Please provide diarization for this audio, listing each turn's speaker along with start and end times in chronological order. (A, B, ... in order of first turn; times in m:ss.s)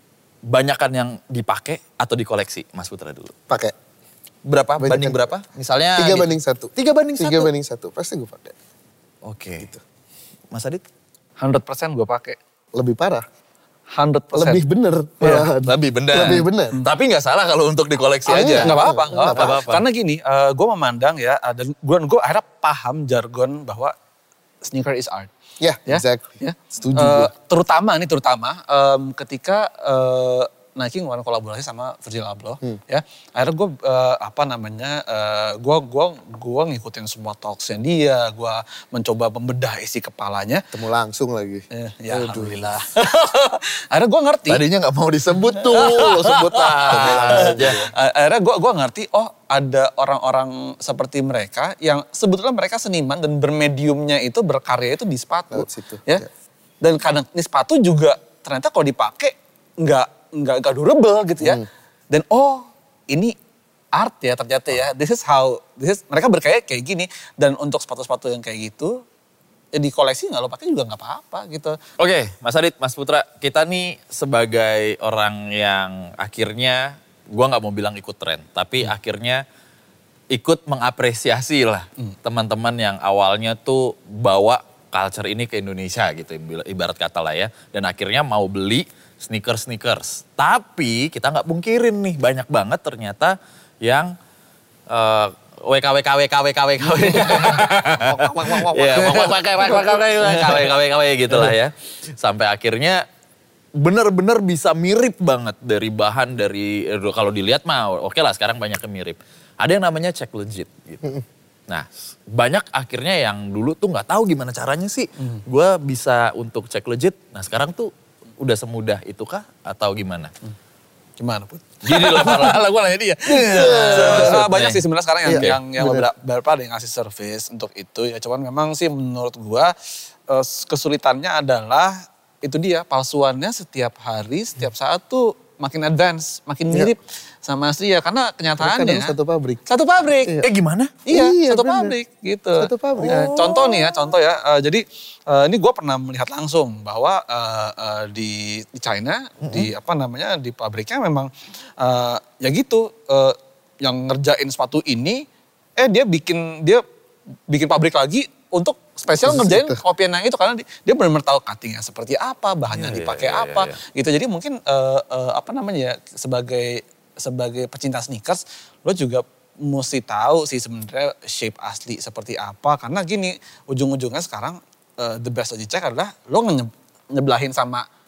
0:00.5-0:03.3 A
0:03.5-0:03.7 B
0:04.4-0:07.5 A
0:04.8-0:05.2 B
0:06.0-0:08.5 B
0:09.2-0:09.7 A
0:10.5-0:10.8 A
0:11.4-0:12.4 C
0:12.7-0:13.2 B
0:13.9-0:14.6 C
0:14.3-0:16.7 B
0:15.2-0:15.5 C
0:15.6-0:19.8 A
0:16.2-0:16.8 C
0:18.3-0:23.9 C
0:18.3-0:19.6 B
0:24.6-0:25.3 C
0:25.6-0:27.3 B
0:25.9-0:40.6 C
0:40.7-0:42.7 B
0:41.7-0:44.6 C
0:44.5-0:47.9 A
0:45.5-0:56.2 C
0:45.8-0:47.9 B
0:55.5-0:56.3 B
0:56.8-1:03.3 C
1:01.4-1:01.7 B
1:03.9-1:09.0 C
1:09.7-1:11.8 C
1:12.0-1:19.4 A
1:20.3-1:34.1 A
1:34.9-1:43.0 A
1:36.8-1:40.7 C
1:41.3-1:41.5 C
1:43.8-2:00.3 A
2:01.2-2:09.7 C
2:01.8-2:02.6 A
2:03.2-2:05.6 A
2:03.4-2:04.4 B
2:05.2-2:06.0 B
2:10.3-2:19.1 C
2:18.6-2:19.6 B
2:19.7-2:20.4 C
2:20.2-2:20.5 B
2:20.4-2:20.9 A
2:21.0-2:35.2 C
2:21.1-2:21.9 B
2:22.6-2:23.3 B
2:23.0-2:23.9 A
2:35.8-2:36.8 C
2:37.5-2:57.8 C
2:39.2-2:39.8 B
2:42.7-2:43.7 A